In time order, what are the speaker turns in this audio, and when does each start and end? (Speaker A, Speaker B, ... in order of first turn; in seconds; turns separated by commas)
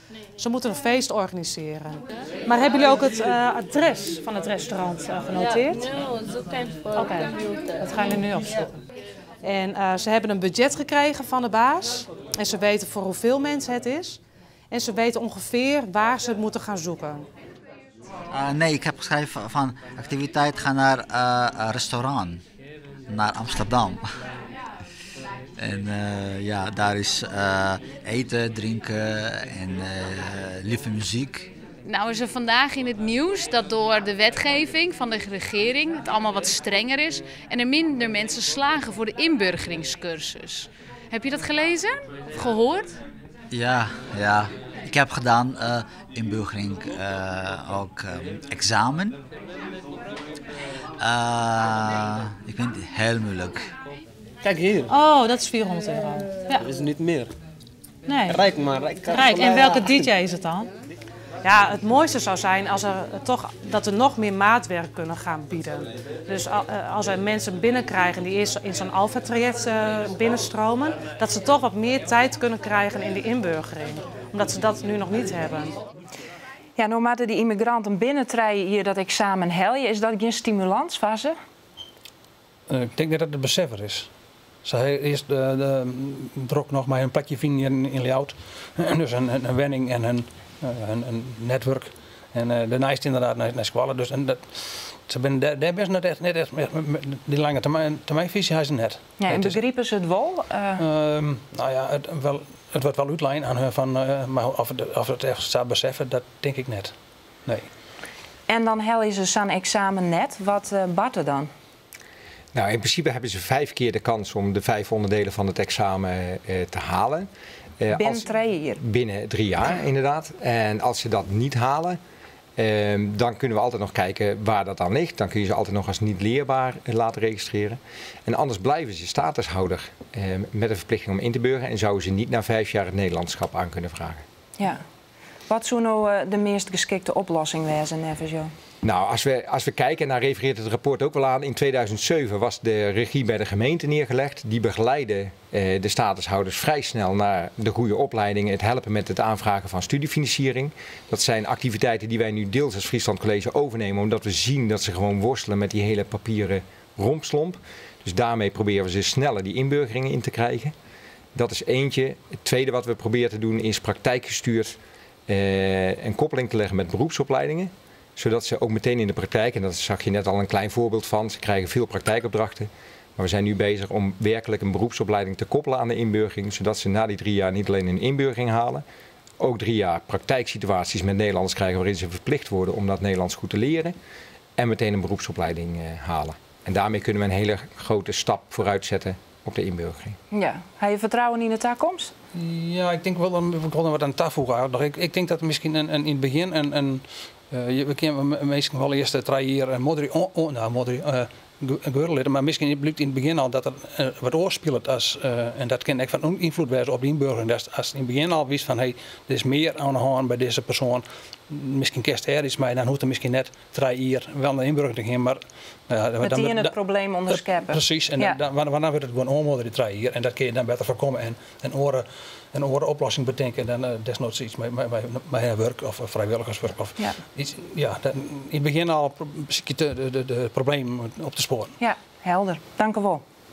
Speaker A: 0.4-5.9, Speaker A: 6.9-8.8, Speaker A: 9.4-14.2, Speaker A: 14.7-17.2, Speaker B: 18.3-22.4, Speaker B: 23.1-24.1, Speaker B: 25.6-31.5, Speaker C: 31.8-42.9, Speaker B: 43.5-49.2, Speaker B: 51.0-53.6, Speaker D: 54.4-55.0, Speaker A: 54.9-56.6, Speaker D: 56.5-57.3, Speaker A: 58.1-58.5, Speaker D: 58.2-60.1, Speaker A: 59.0-60.7, Speaker A: 61.4-75.7, Speaker E: 76.8-81.3, Speaker F: 82.7-84.1, Speaker F: 84.6-99.6, Speaker E: 99.2-100.8, Speaker F: 100.8-106.9, Speaker E: 108.5-111.5, Speaker G: 112.5-117.3, Speaker G: 117.8-122.0, Speaker E: 117.9-118.8, Speaker G: 122.6-134.2, Speaker E: 135.5-138.5, Speaker G: 138.8-160.7, Speaker G: 161.3-178.8, Speaker G: 179.4-183.9, Speaker G: 184.6-190.2, Speaker E: 190.3-192.1, Speaker F: 192.3-216.7, Speaker E: 216.2-218.4, Speaker F: 217.3-231.7, Speaker E: 231.8-233.2